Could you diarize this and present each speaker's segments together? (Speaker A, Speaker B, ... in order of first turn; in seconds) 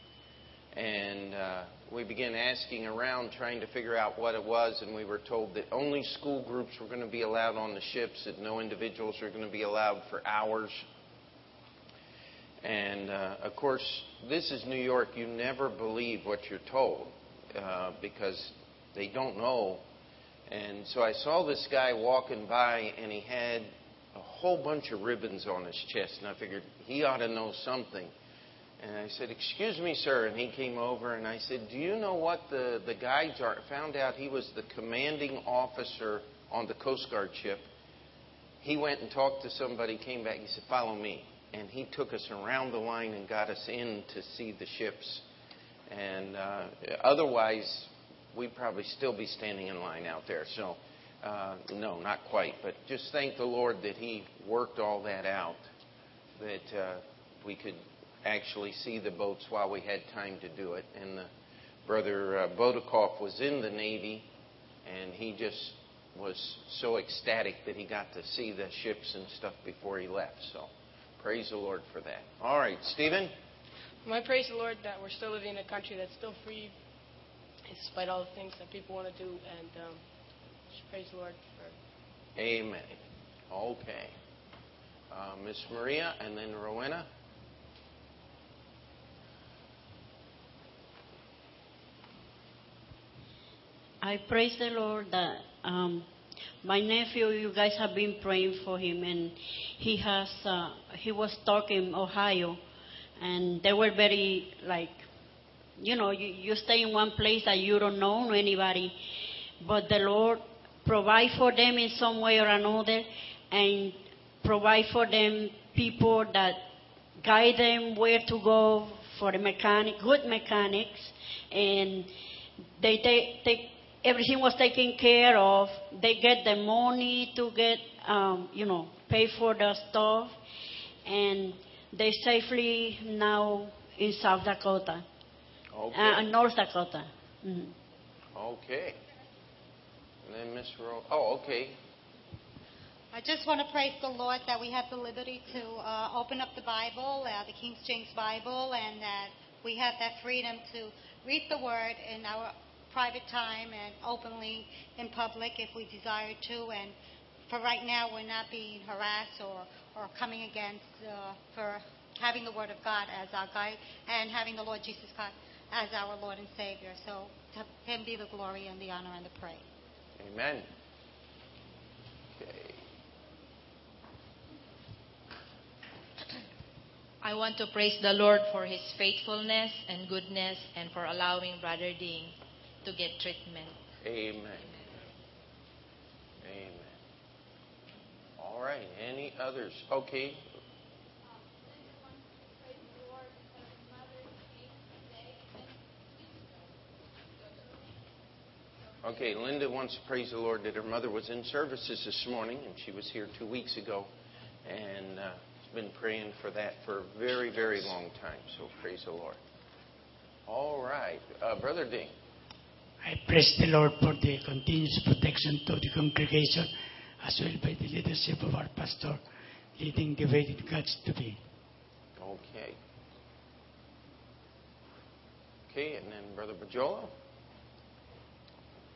Speaker A: 0.7-10.8, 12.6-19.8, 20.5-28.1, 28.8-37.7, 38.6-45.2, 45.9-55.6, 56.4-61.3, 61.9-64.2, 64.8-73.3, 82.4-83.0, 83.5-84.1, 85.1-87.1, 135.7-136.3, 138.3-139.0, 140.2-141.7, 170.2-170.7, 172.4-172.8, 184.0-184.7, 186.4-187.0, 188.4-190.4, 199.0-204.1, 204.6-209.4, 210.5-212.1, 222.2-222.8, 225.7-227.1
Speaker B: 74.0-76.8, 77.7-80.0, 80.7-81.7
Speaker C: 94.0-96.1, 96.6-102.6, 103.2-105.0, 105.8-109.0, 109.6-116.6, 117.2-122.1, 122.8-130.4, 131.1-135.0, 135.9-137.7
Speaker D: 143.1-156.9, 157.5-169.6
Speaker E: 177.2-183.8
Speaker F: 213.0-216.7, 217.2-219.2, 219.8-221.4